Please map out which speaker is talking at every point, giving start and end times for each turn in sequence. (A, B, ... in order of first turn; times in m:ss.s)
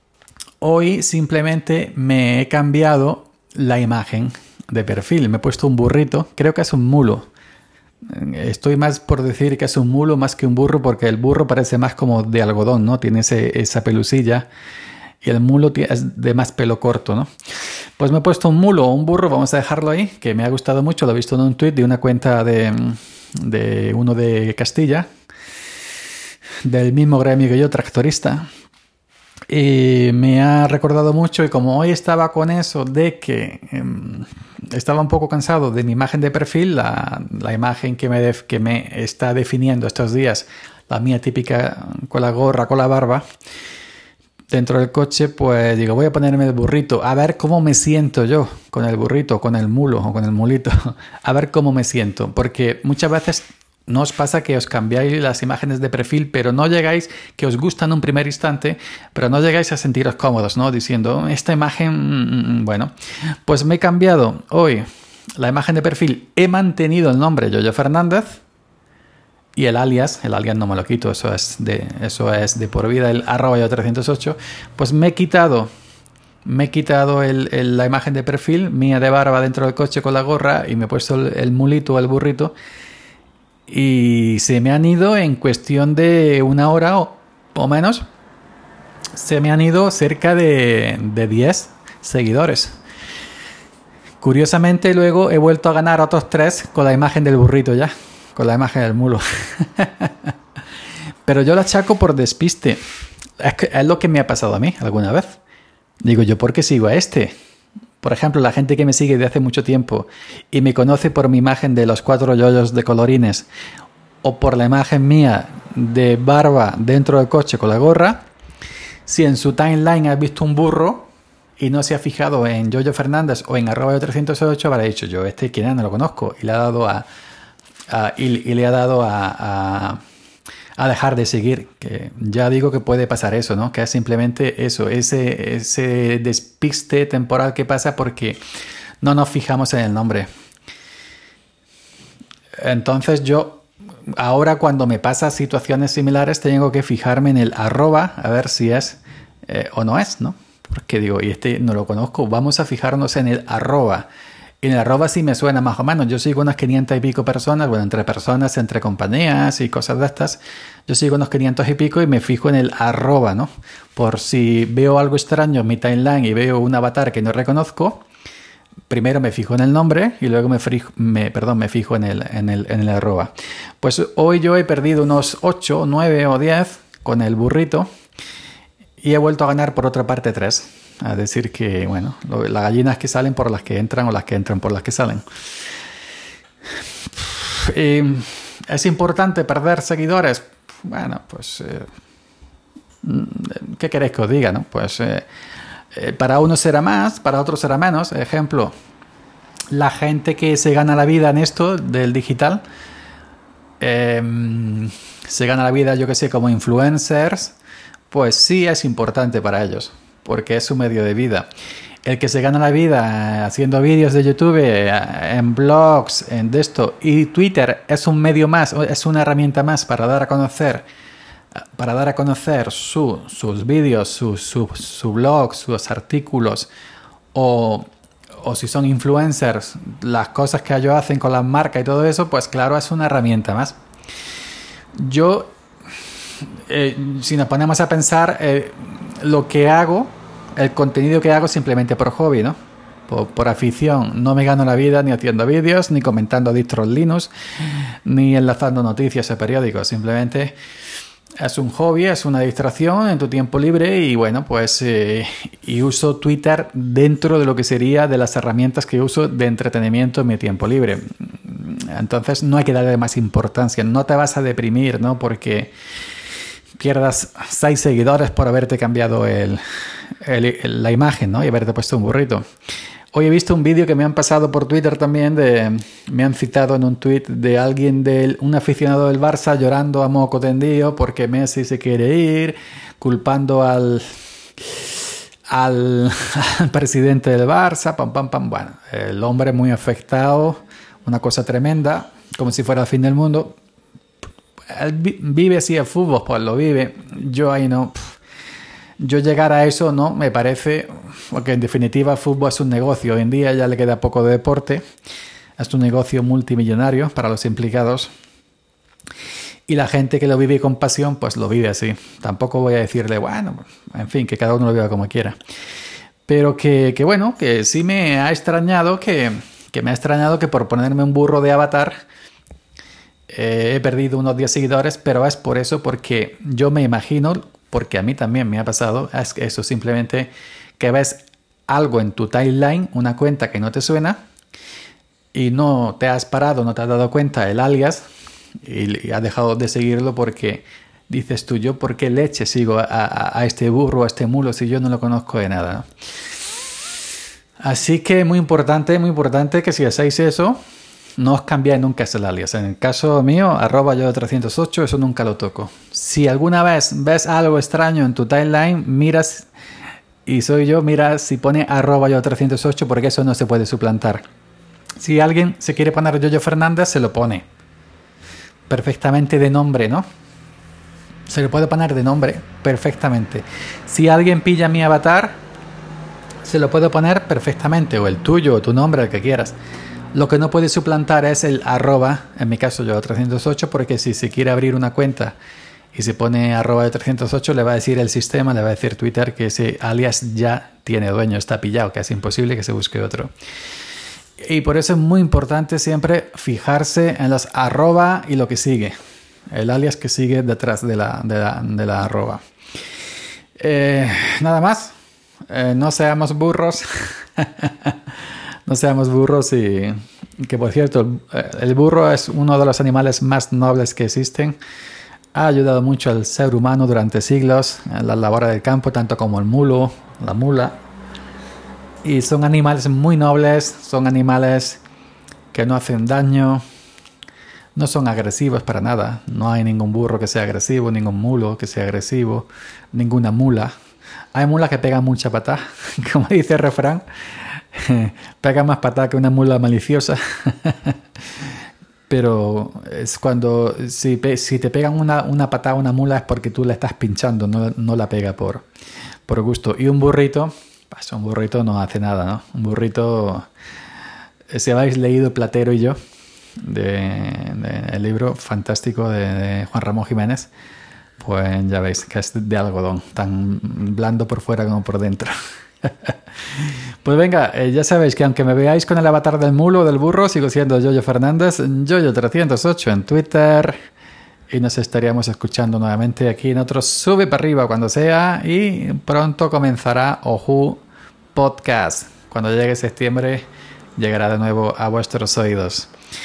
0:00.6-0:07.3 A
0:08.1-0:14.5 A
0:15.2-0:17.3 A
0:18.0-0:25.1 A
0:26.6-0:28.5 A
0:29.5-0:43.2 A
0:44.5-1:02.9 A
1:03.4-1:04.8 A
1:05.4-1:08.4 A
1:09.6-1:15.7 A
1:16.4-1:22.5 A
1:23.7-1:28.0 A
1:29.2-1:32.8 A
1:34.2-1:40.3 A
1:41.2-1:42.8 A
1:43.4-1:45.4 A
1:46.0-1:47.3 A
1:48.0-1:53.5 A
1:54.2-1:58.2 A
1:59.0-2:07.0 A
2:07.9-2:10.0 A
2:10.8-2:18.4 A
2:19.0-2:20.3 A
2:22.6-2:34.1 A
2:34.6-2:48.0 A
2:48.9-2:57.9 A
2:59.0-3:05.2 A
3:07.2-3:11.9 A
3:13.0-3:15.3 A
3:15.9-3:18.7 A
3:19.7-3:22.6 A
3:23.8-3:27.5 A
3:28.1-3:31.5 A
3:32.0-3:40.8 A
3:41.8-3:46.7 A
3:47.3-3:53.8 A
3:55.0-3:55.5 A
3:56.6-4:02.6 A
4:03.1-4:10.6 A
4:11.4-4:25.7 A
4:26.8-4:29.6 A
4:30.2-4:32.4 A
4:33.1-4:53.6 A
4:54.7-4:58.0 A
4:59.0-5:04.8 A
5:05.6-5:08.1 A
5:09.7-5:15.4 A
5:16.3-5:22.0 A
5:23.3-5:34.2 A
5:35.3-5:38.0 A
5:38.6-5:45.8 A
5:47.6-5:50.6 A
5:51.2-5:59.5 A
6:00.2-6:04.2 A
6:05.0-6:07.4 A
6:08.7-6:10.0 A
6:11.3-6:15.4 A
6:16.4-6:19.5 A
6:20.1-6:25.4 A
6:25.9-6:33.3 A
6:34.4-6:38.9 A
6:39.5-6:42.4 A
6:43.6-6:44.9 A
6:45.5-6:48.0 A
6:48.7-6:54.6 A
6:55.3-7:00.8 A
7:02.0-7:04.8 A
7:05.5-7:06.6 A
7:07.8-7:13.7 A
7:14.3-7:21.0 A
7:22.1-7:28.6 A
7:29.3-7:33.4 A
7:34.5-7:36.0 A
7:36.6-7:40.5 A
7:41.2-7:45.3 A
7:45.8-7:53.8 A
7:54.5-8:00.8 A
8:01.3-8:05.9 A